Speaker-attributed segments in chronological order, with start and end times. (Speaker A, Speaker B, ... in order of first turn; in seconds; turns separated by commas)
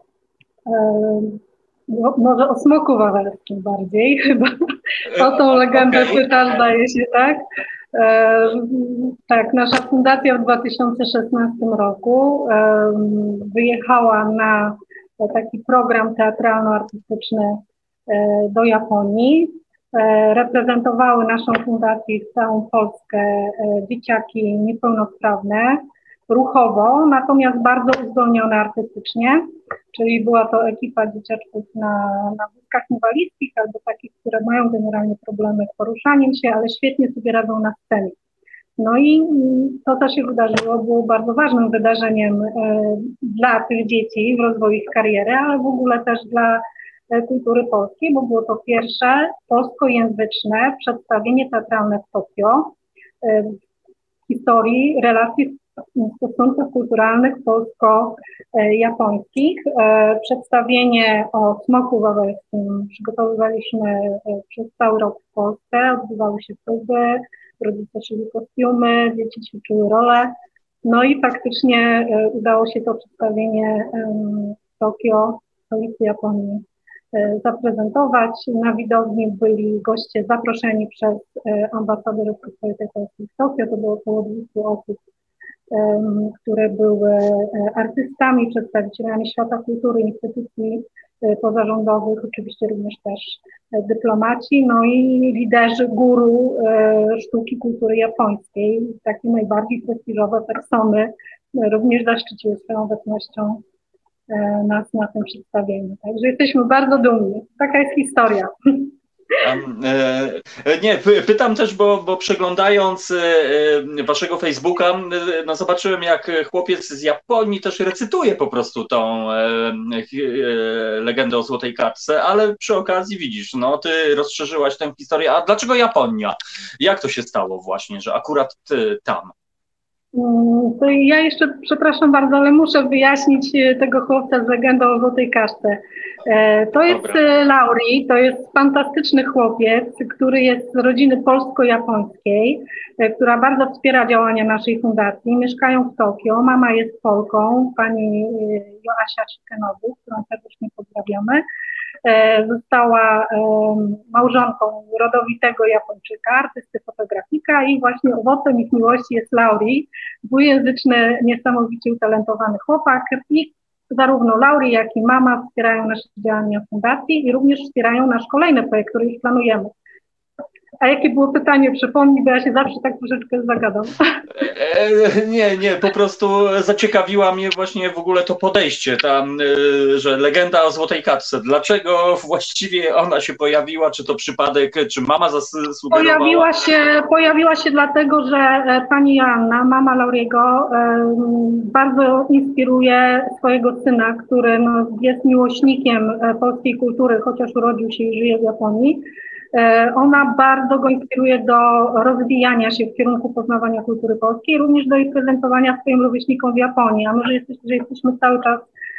Speaker A: 0.7-4.5, Speaker A: 5.1-7.4, Speaker B: 5.1-6.2, Speaker A: 7.9-38.1, Speaker A: 38.8-53.6, Speaker A: 54.3-70.3, Speaker A: 70.8-85.0, Speaker A: 85.7-103.6, Speaker A: 104.3-108.9, Speaker B: 109.4-129.3, Speaker A: 130.1-151.4, Speaker B: 136.9-137.2, Speaker A: 152.0-169.7, Speaker A: 170.8-174.2, Speaker B: 174.4-186.5, Speaker A: 185.9-208.7